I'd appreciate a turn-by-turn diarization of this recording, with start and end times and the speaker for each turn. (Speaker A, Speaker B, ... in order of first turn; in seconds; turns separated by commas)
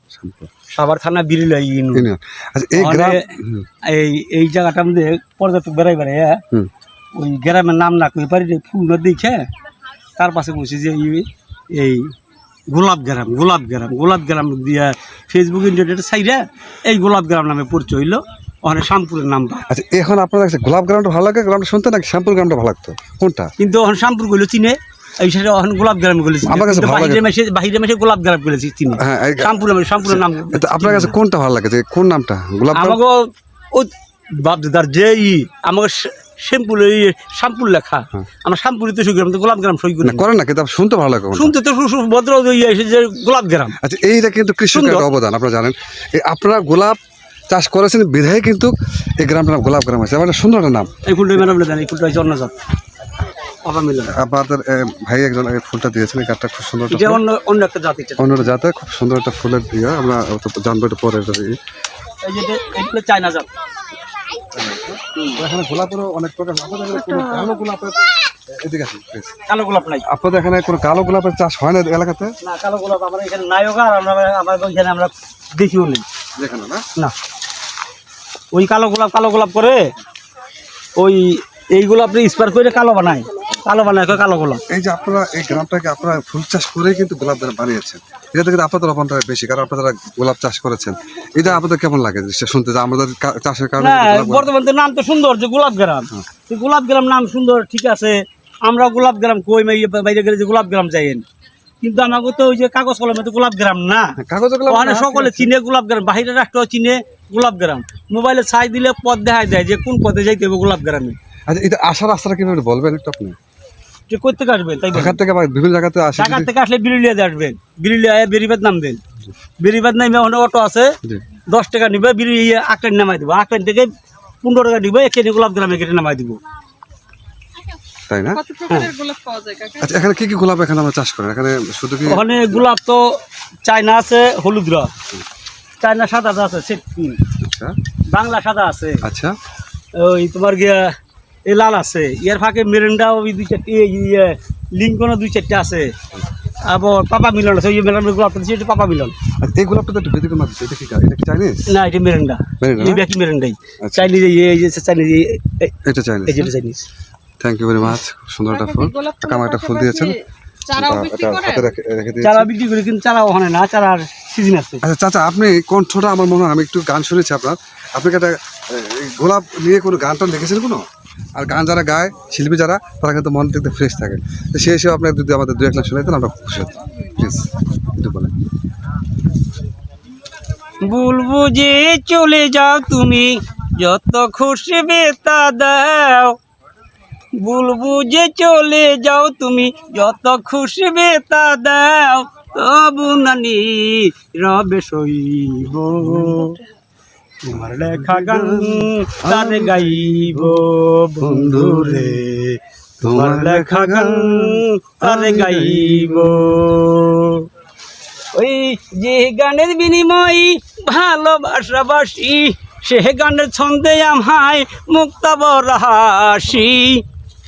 Speaker A: 0.1-0.5, Speaker B: 0.7-2.1, Speaker A: 1.9-3.7, Speaker B: 2.8-3.2, Speaker B: 3.9-6.4, Speaker B: 7.2-9.5, Speaker B: 10.2-12.1, Speaker B: 12.7-19.6, Speaker A: 19.7-23.5, Speaker B: 23.6-31.1, Speaker A: 26.4-27.2, Speaker A: 29.0-33.0, Speaker B: 32.7-40.3, Speaker A: 40.0-41.5, Speaker B: 41.3-43.8, Speaker A: 43.8-47.0, Speaker B: 44.7-45.1, Speaker A: 47.5-50.9, Speaker B: 51.1-52.5, Speaker B: 53.6-54.1, Speaker A: 54.1-57.2, Speaker B: 56.9-58.5, Speaker A: 58.2-61.6, Speaker B: 62.2-63.5, Speaker A: 64.5-68.0, Speaker A: 68.5-69.3, Speaker B: 69.5-70.0, Speaker A: 70.1-72.3, Speaker B: 72.4-76.0, Speaker A: 76.4-76.8, Speaker B: 78.5-79.9, Speaker B: 81.0-84.6, Speaker A: 84.7-94.5, Speaker B: 93.8-101.2, Speaker B: 101.8-104.2, Speaker A: 104.2-105.5, Speaker B: 104.7-111.2, Speaker A: 111.5-113.4, Speaker B: 114.1-115.2, Speaker A: 114.9-116.5, Speaker B: 116.2-119.0, Speaker B: 119.6-120.9, Speaker B: 121.5-123.9, Speaker B: 124.4-126.4, Speaker A: 128.1-128.4, Speaker C: 128.4-129.9, Speaker B: 128.7-128.9, Speaker A: 129.8-132.7, Speaker B: 132.1-133.0, Speaker B: 133.7-134.9, Speaker B: 135.8-137.2, Speaker A: 137.4-137.7, Speaker B: 138.1-139.0, Speaker A: 139.0-139.3, Speaker B: 140.0-140.9, Speaker B: 141.5-145.9, Speaker B: 146.6-149.2, Speaker A: 149.4-151.7, Speaker B: 151.7-155.7, Speaker A: 152.6-153.0, Speaker A: 153.8-154.1, Speaker A: 155.8-156.5, Speaker B: 156.3-156.9, Speaker A: 157.4-160.2, Speaker C: 158.5-160.1, Speaker C: 160.7-161.7, Speaker A: 160.7-162.5, Speaker B: 162.2-164.8, Speaker A: 164.8-170.8, Speaker A: 171.3-178.3, Speaker B: 180.8-186.3, Speaker B: 187.4-196.6, Speaker A: 196.1-196.4, Speaker B: 197.4-207.5, Speaker A: 197.9-200.5, Speaker A: 201.2-202.2, Speaker A: 203.0-206.4, Speaker B: 208.3-217.0